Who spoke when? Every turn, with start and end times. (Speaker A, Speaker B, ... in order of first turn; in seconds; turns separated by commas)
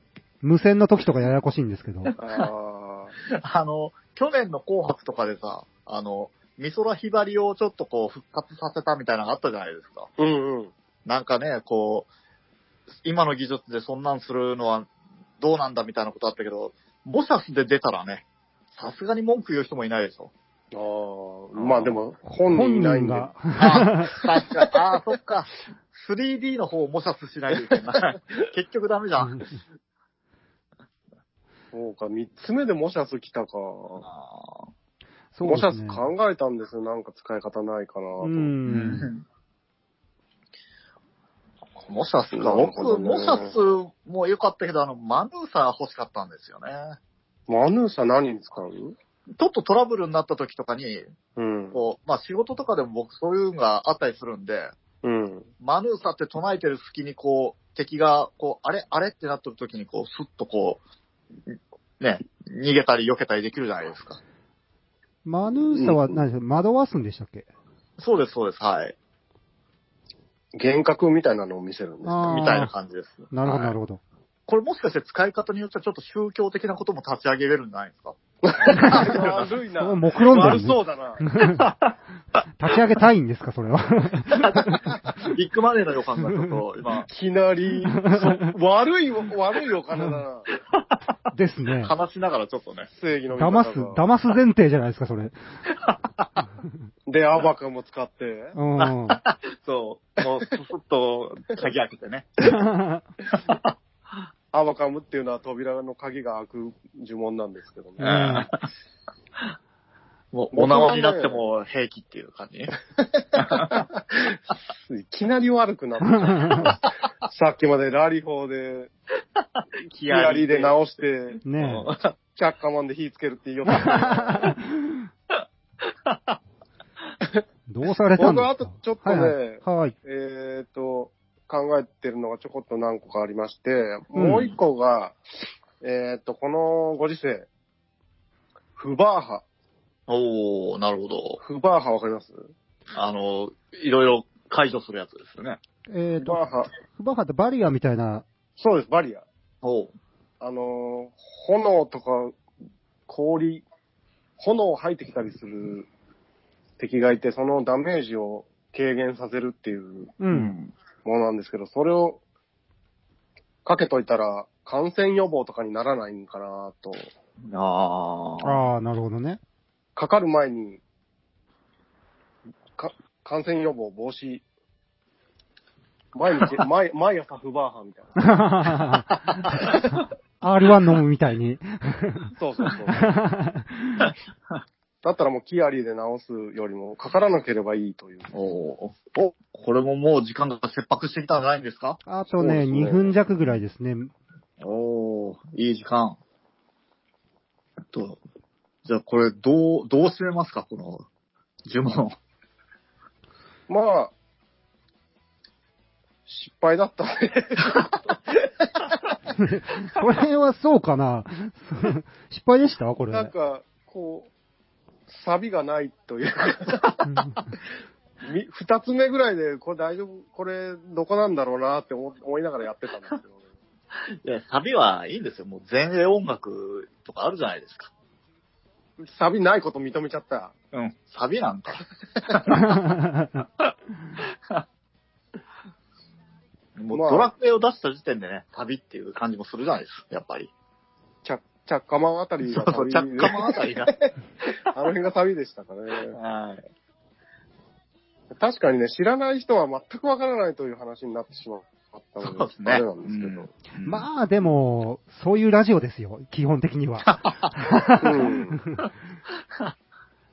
Speaker A: 0.4-2.1, Speaker B: 2.2-3.1, Speaker C: 3.3-10.1, Speaker B: 10.2-10.7, Speaker C: 11.1-12.1, Speaker C: 13.0-14.9, Speaker C: 15.4-20.3, Speaker B: 20.7-23.3, Speaker C: 21.6-21.9, Speaker A: 22.4-24.2, Speaker C: 23.6-29.5, Speaker B: 31.7-34.1, Speaker C: 34.0-34.7, Speaker A: 35.3-36.0, Speaker B: 35.4-38.5, Speaker A: 38.2-39.1, Speaker C: 38.7-39.2, Speaker C: 41.9-47.0, Speaker B: 42.3-43.5, Speaker B: 47.5-49.0, Speaker C: 49.4-51.1, Speaker B: 51.4-51.8, Speaker C: 51.7-54.7, Speaker B: 55.0-55.5, Speaker C: 55.6-60.8, Speaker C: 61.5-64.2, Speaker A: 65.2-67.5, Speaker B: 65.7-66.2, Speaker C: 68.0-69.0, Speaker B: 70.5-72.3, Speaker A: 72.0-72.7, Speaker C: 72.2-73.8, Speaker A: 73.3-74.0, Speaker C: 74.5-79.5, Speaker B: 78.4-81.3, Speaker A: 78.8-79.1, Speaker A: 79.8-81.7, Speaker C: 81.5-81.9, Speaker A: 82.6-84.9, Speaker C: 84.3-87.1, Speaker A: 86.3-86.6, Speaker B: 87.1-90.5, Speaker A: 88.0-88.4, Speaker A: 91.3-91.9, Speaker C: 91.8-92.9, Speaker B: 92.9-94.0, Speaker A: 93.4-95.4, Speaker C: 95.7-96.3, Speaker B: 97.1-98.6, Speaker A: 98.5-99.2, Speaker C: 98.8-102.5, Speaker A: 102.5-103.0, Speaker C: 103.3-103.7, Speaker B: 104.5-108.2, Speaker A: 108.0-108.5, Speaker C: 108.0-108.6, Speaker C: 110.3-112.8, Speaker B: 110.5-111.4, Speaker C: 113.4-113.7, Speaker B: 113.4-118.9, Speaker A: 116.3-116.7, Speaker C: 120.0-120.8, Speaker B: 120.0-121.4, Speaker A: 121.5-121.9, Speaker C: 121.6-122.1, Speaker B: 122.3-124.5, Speaker A: 123.7-125.1, Speaker C: 126.1-126.4, Speaker A: 127.7-129.9, Speaker B: 128.2-135.2, Speaker A: 134.2-134.5, Speaker B: 135.8-137.5, Speaker B: 138.8-139.4, Speaker C: 140.1-141.4, Speaker B: 141.4-142.5, Speaker C: 142.9-145.6, Speaker A: 145.9-148.2, Speaker B: 146.2-146.7, Speaker B: 148.6-149.2, Speaker C: 149.6-149.9, Speaker B: 150.4-152.4, Speaker B: 153.1-153.6, Speaker B: 154.4-155.9, Speaker B: 156.8-160.2, Speaker A: 160.2-160.5, Speaker C: 160.3-160.7, Speaker B: 161.1-162.2, Speaker B: 163.7-167.1, Speaker C: 167.5-168.7, Speaker A: 168.4-169.4, Speaker B: 170.0-170.8, Speaker B: 172.8-174.4, Speaker B: 176.1-178.4, Speaker A: 178.2-179.8, Speaker C: 179.1-179.9, Speaker A: 180.4-182.3, Speaker B: 182.3-183.1, Speaker A: 182.9-184.1, Speaker B: 185.0-188.3, Speaker C: 188.3-192.0, Speaker A: 192.1-194.1, Speaker B: 192.4-193.1, Speaker C: 194.6-196.2, Speaker C: 197.9-198.2, Speaker C: 198.9-201.1, Speaker C: 201.7-202.2, Speaker B: 203.7-204.1, Speaker B: 206.3-208.2, Speaker A: 209.4-213.3, Speaker B: 213.1-214.3, Speaker B: 215.1-217.0, Speaker A: 217.1-217.4, Speaker B: 218.2-223.3, Speaker C: 224.2-227.9, Speaker B: 229.0-230.5, Speaker C: 230.7-232.7, Speaker C: 236.8-240.5, Speaker B: 236.9-237.3, Speaker B: 241.2-244.1, Speaker C: 242.5-243.9, Speaker B: 244.7-246.2, Speaker C: 246.1-246.7, Speaker B: 248.3-253.5, Speaker C: 252.2-254.1, Speaker A: 253.8-258.8, Speaker C: 257.0-257.9, Speaker B: 258.0-258.6